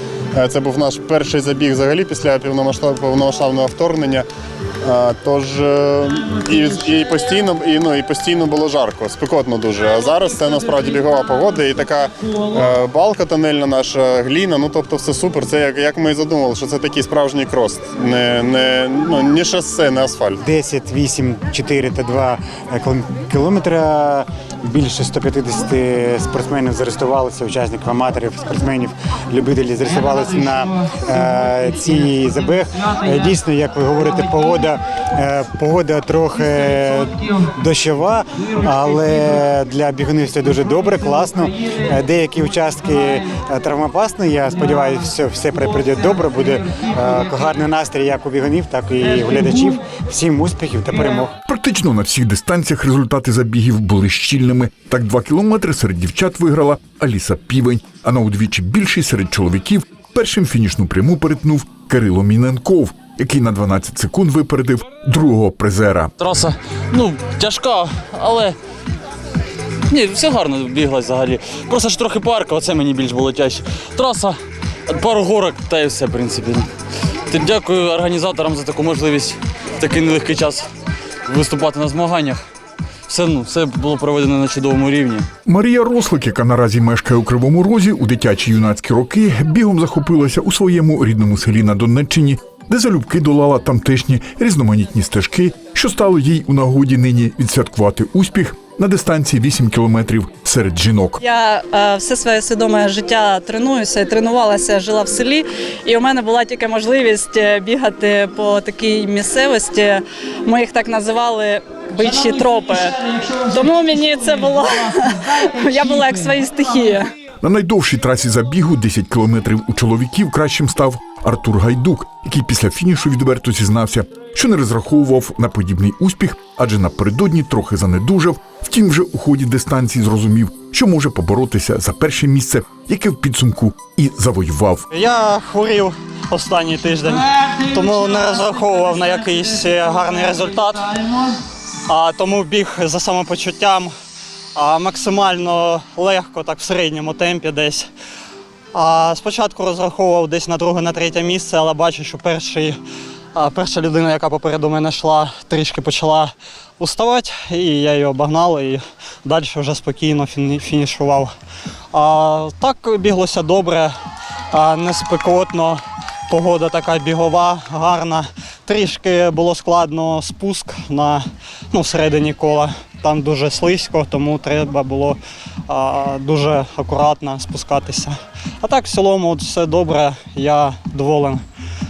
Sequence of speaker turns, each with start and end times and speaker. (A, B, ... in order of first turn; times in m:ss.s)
0:00.3-0:04.3 A
0:04.8-0:20.4 A
0:20.4-0:51.3 B
0:51.4-1:06.1 C
1:06.2-1:08.6 D
1:09.9-1:14.4 D
1:14.9-1:16.7 D
1:17.3-1:20.7 D
1:21.3-1:22.4 D
1:23.1-1:25.3 D
1:25.4-1:41.2 C
1:41.2-1:57.1 E
1:57.4-2:14.9 C
2:14.9-2:21.0 F
2:21.8-2:23.9 F
2:24.5-2:27.9 F
2:28.7-2:32.8 F
2:33.3-2:41.3 F
2:41.9-2:43.9 F
2:44.5-3:01.4 F